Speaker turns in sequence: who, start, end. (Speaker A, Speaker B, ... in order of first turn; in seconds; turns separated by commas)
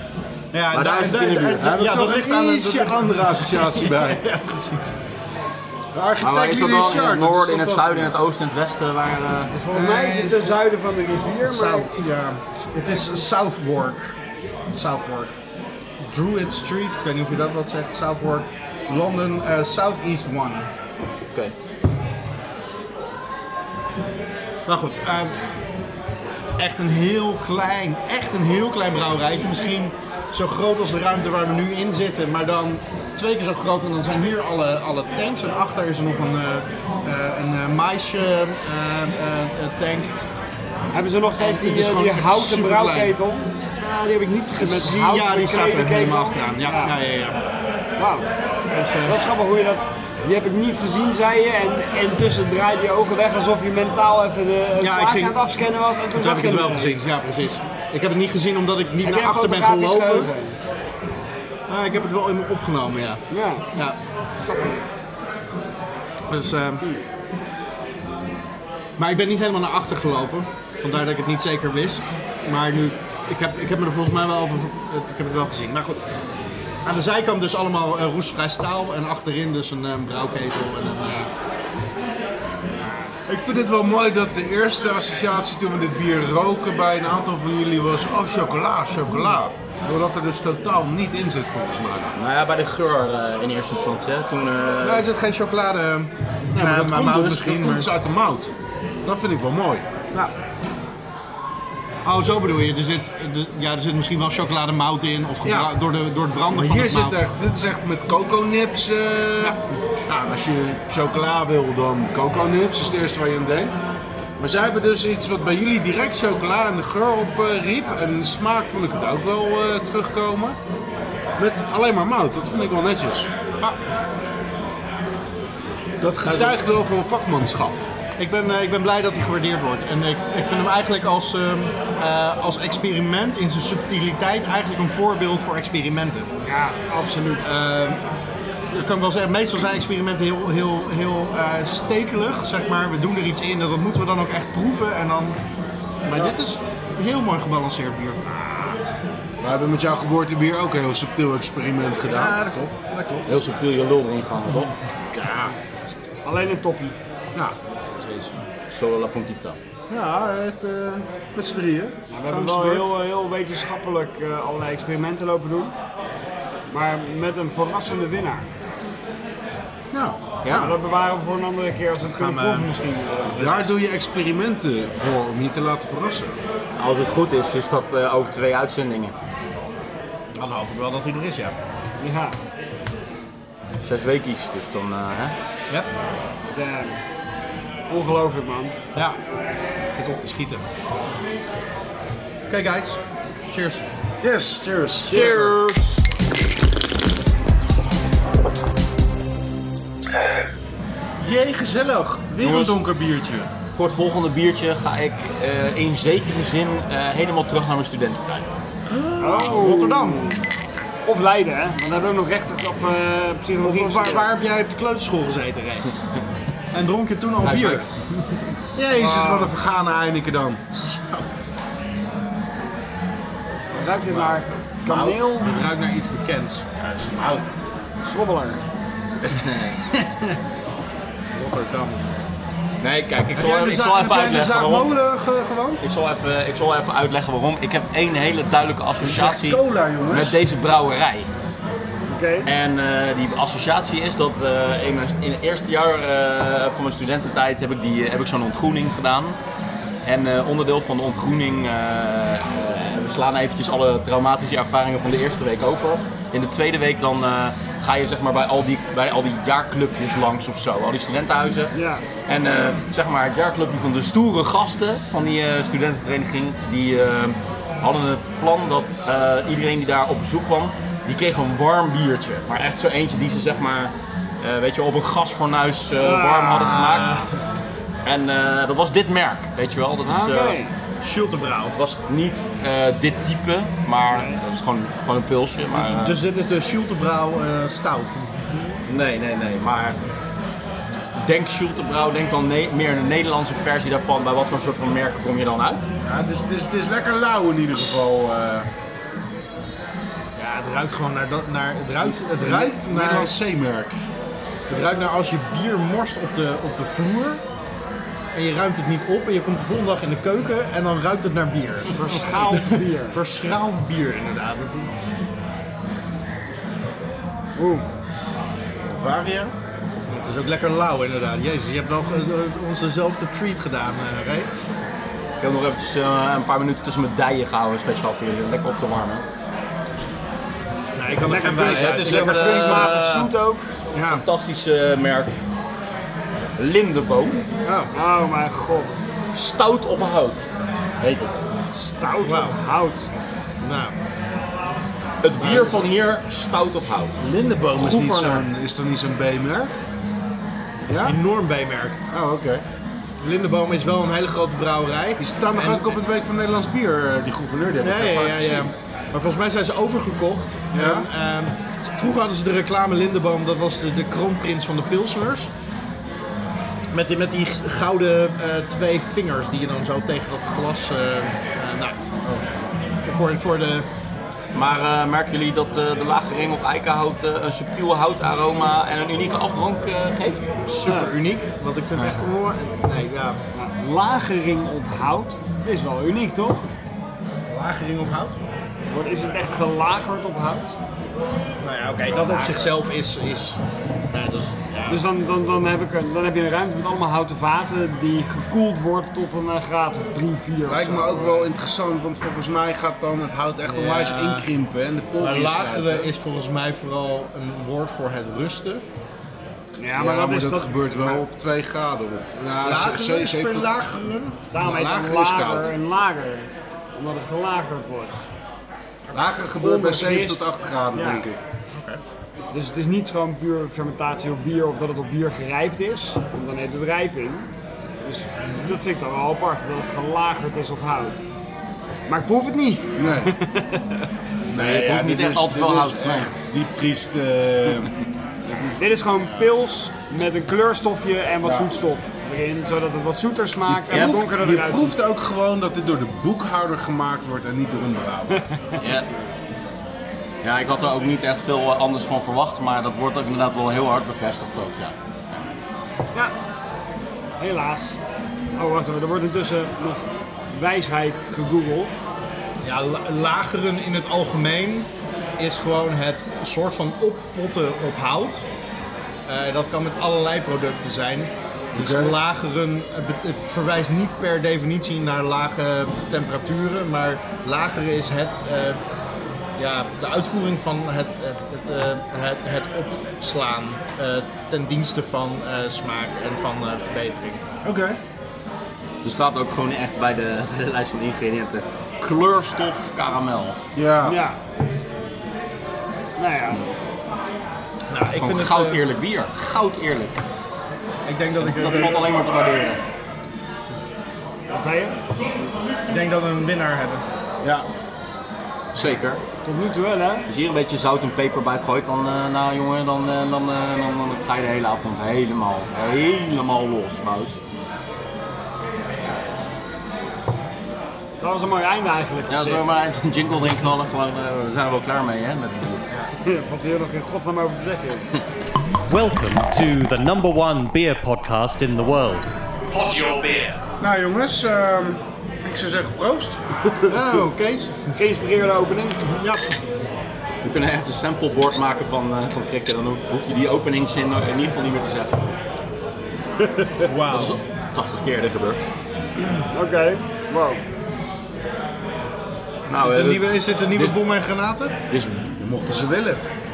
Speaker A: 0.5-5.0, Speaker B: 0.7-1.7, Speaker C: 1.6-4.2, Speaker C: 5.9-8.1, Speaker B: 6.2-9.5, Speaker D: 9.5-11.9, Speaker A: 9.7-10.7, Speaker A: 11.4-14.2, Speaker A: 14.7-15.4, Speaker A: 16.0-20.7, Speaker A: 24.6-25.4, Speaker A: 26.6-40.1, Speaker D: 40.9-43.5, Speaker A: 41.4-43.2, Speaker A: 43.8-47.4, Speaker D: 44.6-46.9, Speaker D: 48.0-48.3, Speaker A: 48.7-49.2, Speaker D: 49.0-57.0, Speaker A: 54.8-55.4, Speaker A: 56.1-60.3, Speaker D: 59.0-60.6, Speaker A: 61.7-63.2, Speaker D: 63.3-63.6, Speaker D: 64.4-64.8, Speaker A: 66.3-66.9, Speaker A: 69.0-76.1, Speaker A: 76.8-81.3, Speaker C: 83.3-92.1, Speaker B: 92.2-95.0, Speaker A: 94.8-97.9, Speaker C: 96.5-98.5, Speaker C: 99.0-99.8, Speaker A: 102.0-107.2, Speaker C: 105.4-105.7, Speaker C: 106.5-113.8, Speaker C: 114.4-120.6, Speaker C: 121.4-123.7, Speaker C: 126.0-127.8, Speaker B: 126.2-126.6, Speaker A: 128.2-136.3, Speaker D: 136.4-137.5, Speaker A: 137.4-138.0, Speaker A: 138.7-145.4, Speaker A: 146.0-148.8, Speaker C: 149.4-152.5, Speaker A: 152.0-153.6, Speaker B: 153.3-154.7, Speaker C: 155.1-155.5, Speaker D: 156.2-157.0, Speaker A: 157.9-158.3, Speaker B: 158.7-159.6, Speaker C: 159.9-162.9, Speaker D: 162.1-165.7, Speaker D: 166.7-168.5, Speaker C: 169.9-170.7, Speaker B: 170.4-170.7, Speaker D: 170.5-173.5, Speaker A: 172.1-172.7, Speaker A: 173.2-173.7, Speaker C: 173.3-176.3, Speaker B: 176.8-179.1, Speaker A: 180.3-181.5, Speaker D: 182.0-182.3, Speaker B: 183.8-185.3, Speaker D: 186.5-187.0, Speaker D: 187.9-188.8, Speaker A: 189.9-190.6, Speaker A: 192.5-193.8, Speaker C: 194.2-195.6, Speaker D: 195.1-195.6, Speaker B: 195.1-195.8, Speaker C: 201.2-203.5, Speaker B: 202.4-202.8, Speaker B: 203.7-208.5, Speaker C: 208.9-209.4, Speaker A: 209.2-210.3, Speaker D: 209.2-210.4, Speaker D: 211.1-214.3, Speaker A: 213.6-215.9, Speaker A: 216.7-217.9, Speaker B: 217.4-217.8, Speaker C: 218.8-220.6, Speaker D: 218.9-219.5, Speaker A: 220.7-221.3, Speaker D: 223.7-225.5, Speaker C: 224.0-225.1, Speaker A: 225.1-226.6, Speaker C: 226.8-227.4, Speaker D: 228.0-228.6, Speaker B: 229.3-229.8, Speaker A: 229.9-230.3, Speaker C: 231.3-232.0, Speaker B: 232.8-234.9, Speaker A: 233.3-235.8, Speaker B: 235.8-241.3, Speaker C: 239.0-240.4, Speaker D: 242.1-242.5, Speaker B: 242.4-249.4, Speaker B: 250.0-261.7, Speaker D: 261.7-262.0, Speaker B: 262.3-277.2, Speaker D: 276.0-277.1, Speaker A: 276.5-277.3, Speaker B: 278.0-280.6, Speaker D: 280.0-280.7, Speaker A: 281.0-281.7, Speaker B: 281.7-286.2, Speaker D: 284.1-284.4, Speaker A: 285.8-288.8, Speaker B: 288.9-290.0, Speaker B: 291.1-295.9, Speaker C: 296.0-298.7, Speaker A: 300.4-303.3, Speaker C: 302.3-304.0, Speaker A: 304.7-307.4, Speaker A: 308.3-314.9, Speaker D: 311.9-313.2, Speaker D: 317.6-317.9, Speaker C: 318.9-319.5, Speaker A: 320.1-324.5, Speaker B: 325.4-329.2, Speaker A: 330.9-332.6, Speaker D: 331.2-333.7, Speaker B: 331.4-333.3, Speaker A: 333.9-334.2, Speaker B: 334.0-335.3, Speaker B: 336.6-337.5, Speaker A: 337.6-337.9, Speaker D: 337.9-339.0, Speaker B: 339.3-340.4, Speaker B: 341.0-341.4, Speaker D: 341.7-343.1, Speaker A: 342.2-342.6, Speaker A: 343.6-343.9, Speaker B: 345.2-347.2, Speaker A: 345.4-345.8, Speaker C: 347.2-349.7, Speaker B: 347.8-348.4, Speaker C: 350.9-351.2, Speaker A: 351.0-352.0, Speaker C: 352.1-352.6, Speaker A: 353.2-355.9, Speaker C: 355.2-358.7, Speaker A: 357.8-365.5, Speaker C: 360.7-361.1, Speaker A: 366.9-372.0, Speaker A: 373.0-373.9, Speaker B: 374.5-380.5, Speaker A: 380.7-383.4, Speaker D: 380.8-381.1, Speaker D: 383.5-386.7, Speaker A: 387.5-388.4, Speaker D: 388.9-390.8, Speaker A: 391.6-393.6, Speaker A: 394.1-395.1, Speaker D: 394.9-401.5, Speaker C: 400.7-406.1, Speaker A: 403.6-404.5, Speaker A: 405.2-408.8, Speaker D: 409.8-411.2, Speaker C: 409.9-413.7, Speaker A: 412.6-414.4, Speaker D: 414.5-418.2, Speaker C: 414.5-415.7, Speaker C: 419.1-421.4, Speaker D: 419.6-421.2, Speaker A: 421.7-422.0, Speaker D: 422.5-427.5, Speaker D: 428.0-431.2, Speaker D: 432.1-434.1, Speaker C: 432.9-433.3, Speaker C: 434.5-438.0, Speaker B: 434.5-436.3, Speaker D: 438.5-445.0, Speaker C: 439.2-439.5, Speaker C: 441.4-441.7, Speaker C: 443.7-448.4, Speaker B: 448.8-449.1, Speaker B: 450.4-454.9, Speaker D: 457.4-458.0, Speaker D: 458.6-462.0, Speaker A: 462.6-468.4, Speaker A: 469.2-478.8, Speaker C: 471.7-472.1, Speaker A: 479.6-487.4, Speaker C: 487.6-488.0, Speaker B: 489.0-493.6, Speaker C: 493.7-494.3, Speaker D: 494.0-494.4, Speaker D: 496.2-496.6, Speaker A: 497.9-498.8, Speaker B: 498.1-500.2, Speaker A: 501.0-502.1, Speaker B: 501.4-502.8, Speaker D: 504.5-505.0, Speaker A: 505.9-507.0, Speaker B: 508.7-509.2, Speaker D: 509.4-510.3, Speaker B: 510.3-517.4, Speaker D: 521.2-522.6, Speaker B: 522.3-525.8, Speaker D: 526.2-528.1, Speaker E: 528.9-533.6, Speaker C: 533.8-536.4, Speaker A: 536.9-538.0, Speaker D: 537.9-539.6, Speaker B: 540.4-545.2, Speaker D: 546.4-546.9, Speaker A: 546.8-547.4, Speaker B: 547.1-548.6, Speaker D: 549.2-550.6, Speaker B: 552.7-553.9, Speaker A: 552.7-554.8, Speaker B: 554.9-555.2, Speaker C: 555.4-556.2